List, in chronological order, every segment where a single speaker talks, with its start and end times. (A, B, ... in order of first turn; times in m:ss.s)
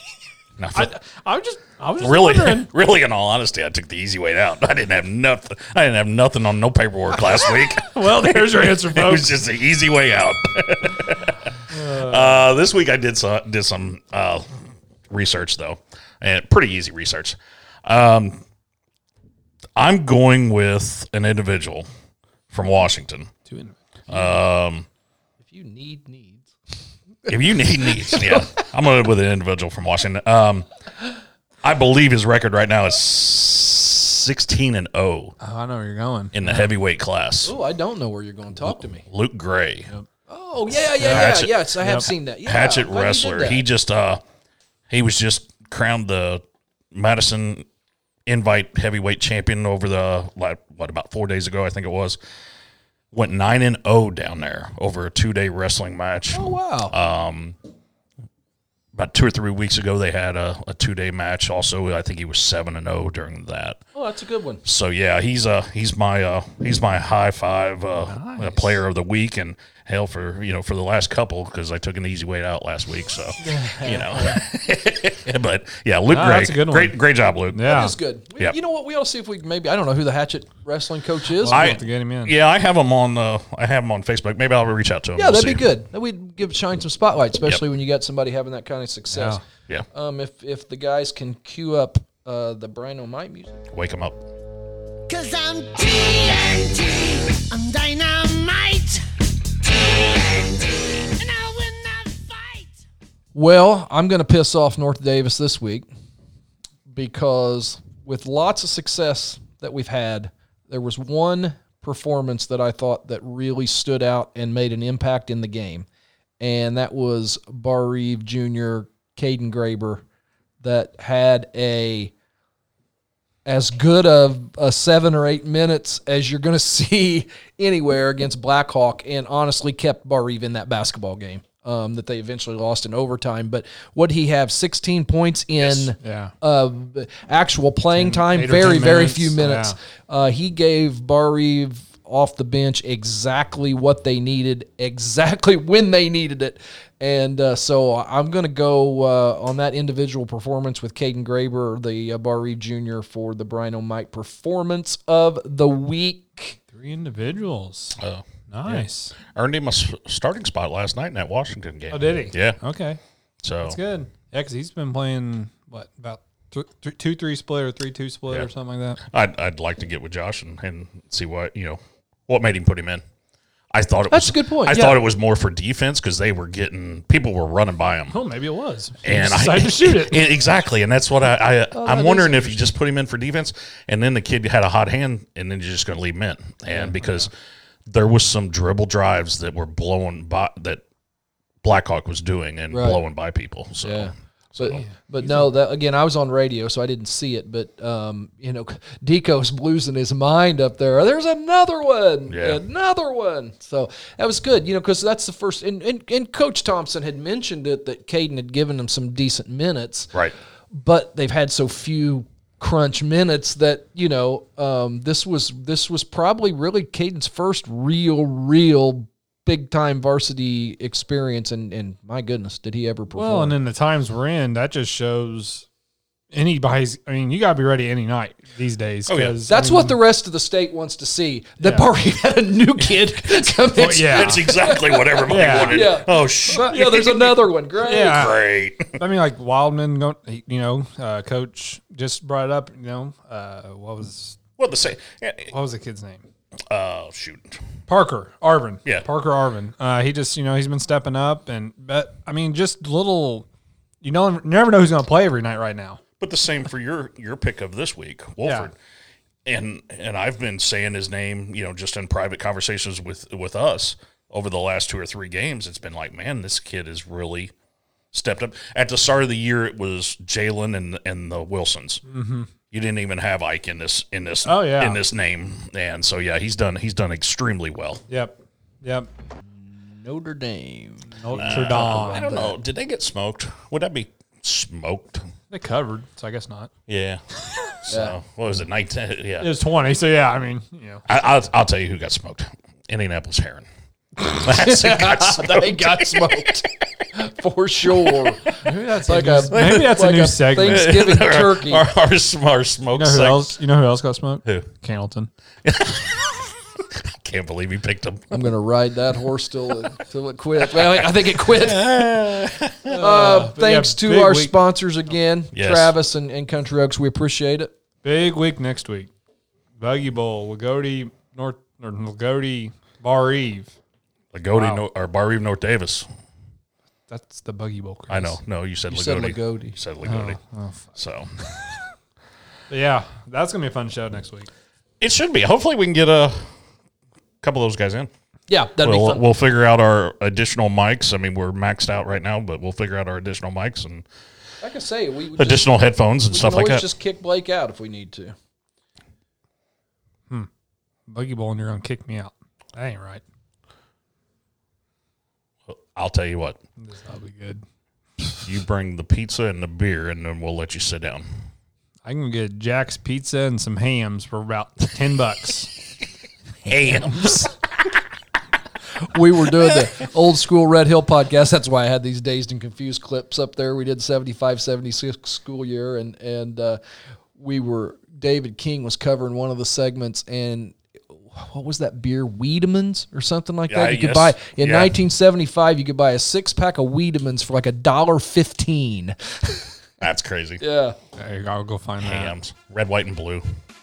0:00.6-0:00.9 A
0:00.7-0:02.7 B
0:02.0-0:14.5 A
0:07.3-0:09.3 B
0:11.7-0:12.5 B
0:15.1-0:18.4 A
0:19.8-0:21.9 A
0:22.5-0:23.3 A
0:23.4-0:23.8 B
0:24.1-0:24.9 A
0:25.4-0:26.5 C
0:27.3-0:30.7 A
0:27.9-0:28.4 C
0:31.6-0:35.3 A
0:35.4-0:36.7 B
0:36.3-0:37.6 A
0:37.4-0:39.0 C
0:39.0-0:39.9 A
0:40.3-0:43.6 C
0:41.0-0:41.6 A
0:41.0-0:42.1 B
0:42.4-0:44.2 A
0:44.9-0:47.6 A
0:48.2-0:52.2 A
0:53.1-0:57.6 A
0:56.3-0:56.9 C
0:58.9-1:03.8 A
1:03.9-1:04.6 C
1:04.6-1:17.8 A
1:08.0-1:08.8 B
1:13.4-1:14.4 C
1:16.1-1:17.0 B
1:17.5-1:17.9 B
1:17.6-1:21.7 C
1:21.4-1:22.3 B
1:21.5-1:25.7 A
1:25.2-1:29.4 C
1:29.1-1:29.4 B
1:29.9-1:33.6 C
1:33.7-1:34.2 A
1:35.1-1:39.0 D
1:39.6-1:42.8 D
1:43.3-1:45.9 C
1:46.9-1:55.9 C
1:56.4-2:00.0 C
2:00.6-2:02.1 C
2:03.4-2:36.6 C
2:15.6-2:15.9 A
2:16.0-2:16.3 B
2:17.9-2:19.8 B
2:36.7-2:39.1 B
2:38.0-2:42.6 A
2:41.9-2:43.0 B
2:43.4-2:43.8 A
2:43.6-2:49.0 B
2:49.0-2:53.0 A
2:53.7-2:58.2 A
2:54.1-2:55.0 C
2:58.1-3:00.2 B
2:59.0-3:07.3 A
3:01.7-3:02.7 C
3:06.8-3:07.3 B
3:07.9-3:10.8 A
3:11.6-3:14.8 A
3:12.7-3:13.0 C
3:13.8-3:30.1 C
3:14.7-3:15.4 B
3:22.3-3:22.6 A
3:30.7-3:43.5 C
3:43.1-3:45.6 B
3:46.3-3:50.0 B
3:49.1-3:49.4 A
3:49.5-3:58.3 C
3:51.6-3:51.9 B
3:53.8-3:54.5 B
3:53.8-3:57.3 A
3:55.3-3:56.0 B
3:56.5-3:57.2 B
3:57.8-3:58.4 B
3:57.9-3:59.0 A
3:58.9-4:04.4 B
4:04.6-4:05.5 A
4:05.5-4:06.2 B
4:06.7-4:07.6 A
4:07.9-4:13.4 B
4:14.0-4:16.0 B
4:16.2-4:18.7 A
4:18.4-4:18.7 B
4:19.4-4:27.5 A
4:28.1-4:32.0 A
4:32.1-4:32.5 B
4:32.7-4:38.0 A
4:34.4-4:35.0 B
4:38.1-4:39.1 B
4:39.5-4:42.5 C
4:41.1-4:42.5 B
4:41.3-4:45.3 A
4:45.5-4:46.7 B
4:46.9-4:47.2 A
4:47.8-4:49.5 A
4:47.9-4:48.2 C
4:49.4-4:51.0 B
4:51.1-4:53.7 A
4:54.3-4:56.7 A
4:54.4-5:01.9 C
4:57.9-4:58.6 A
4:58.6-5:01.0 B
4:59.5-5:03.6 A
5:02.9-5:05.3 B
5:05.6-5:08.5 A
5:08.3-5:12.0 C
5:10.6-5:13.0 A
5:12.9-5:14.5 B
5:12.9-5:17.7 C
5:15.5-5:15.9 A
5:18.0-5:19.1 B
5:19.8-5:23.7 B
5:24.3-5:26.1 A
5:24.5-5:24.8 B
5:27.1-5:28.4 B
5:28.1-5:30.4 A
5:28.9-5:29.8 C
5:30.0-5:30.9 B
5:31.0-5:31.3 A
5:32.7-5:34.5 B
5:35.0-5:36.4 A
5:37.4-5:38.1 A
5:38.5-5:39.2 C
5:38.8-5:44.0 A
5:44.6-5:45.7 C
5:45.4-5:46.8 A
5:46.3-5:48.3 C
5:51.1-5:53.2 B
5:55.7-5:56.6 A
5:56.8-5:57.6 B
5:58.4-6:01.3 A
6:02.0-6:05.7 B
6:06.6-6:07.5 A
6:07.0-6:07.3 B
6:09.0-6:16.8 C
6:17.4-6:29.6 C
6:23.7-6:24.9 A
6:30.0-6:30.6 A
6:30.6-6:31.0 C
6:31.2-6:32.3 B
6:32.0-6:33.4 A